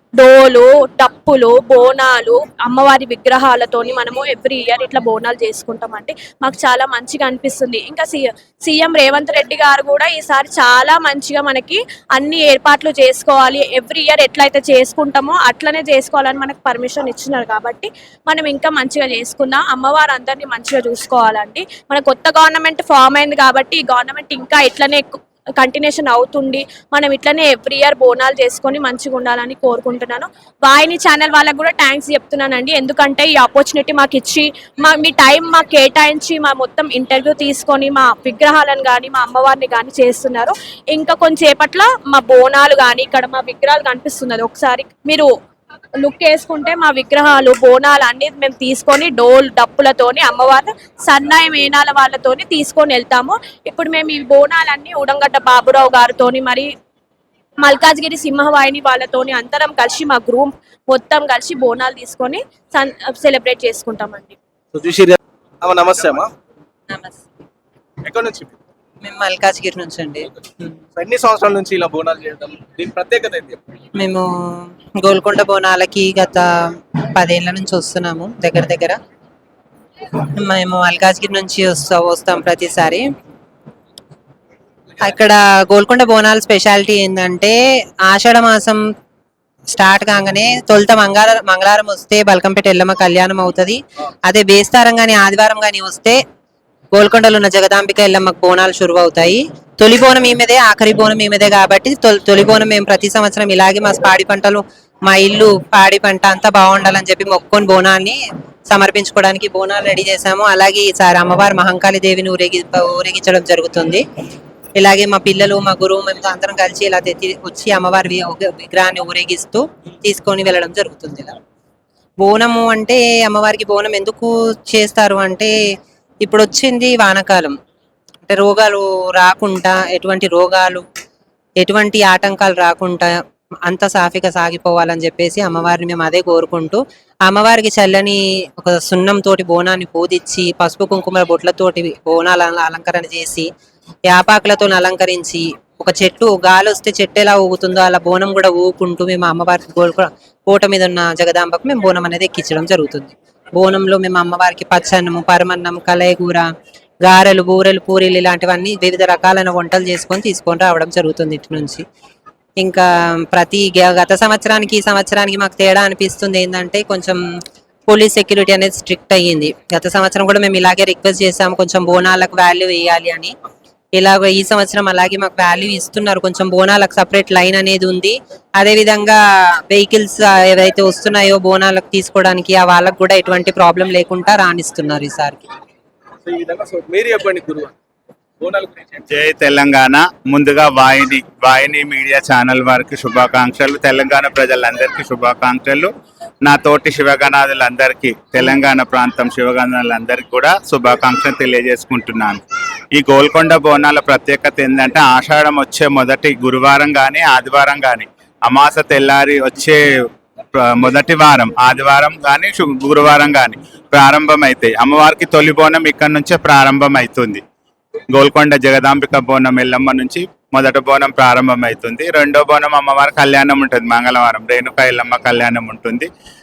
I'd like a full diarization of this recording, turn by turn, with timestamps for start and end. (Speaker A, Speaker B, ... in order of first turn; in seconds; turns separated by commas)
Speaker A: 0.2-45.3, Speaker A: 46.0-56.7, Speaker A: 57.6-64.4, Speaker B: 64.7-66.3, Speaker C: 66.9-67.2, Speaker B: 68.0-68.5, Speaker C: 69.0-70.8, Speaker B: 71.0-73.6, Speaker C: 74.0-76.5, Speaker C: 77.2-79.0, Speaker C: 80.4-83.0, Speaker C: 85.0-88.8, Speaker C: 89.7-96.2, Speaker C: 97.0-108.2, Speaker C: 108.7-114.0, Speaker C: 114.8-121.3, Speaker C: 122.2-125.5, Speaker C: 126.2-127.5, Speaker C: 128.3-130.8, Speaker C: 131.6-143.5, Speaker C: 144.1-156.5, Speaker C: 157.1-161.8, Speaker C: 162.6-167.2, Speaker C: 167.9-173.3, Speaker C: 174.0-185.4, Speaker B: 186.3-187.7, Speaker B: 188.4-189.1, Speaker D: 189.1-195.9, Speaker D: 196.4-202.4, Speaker D: 202.9-217.4, Speaker D: 218.1-226.1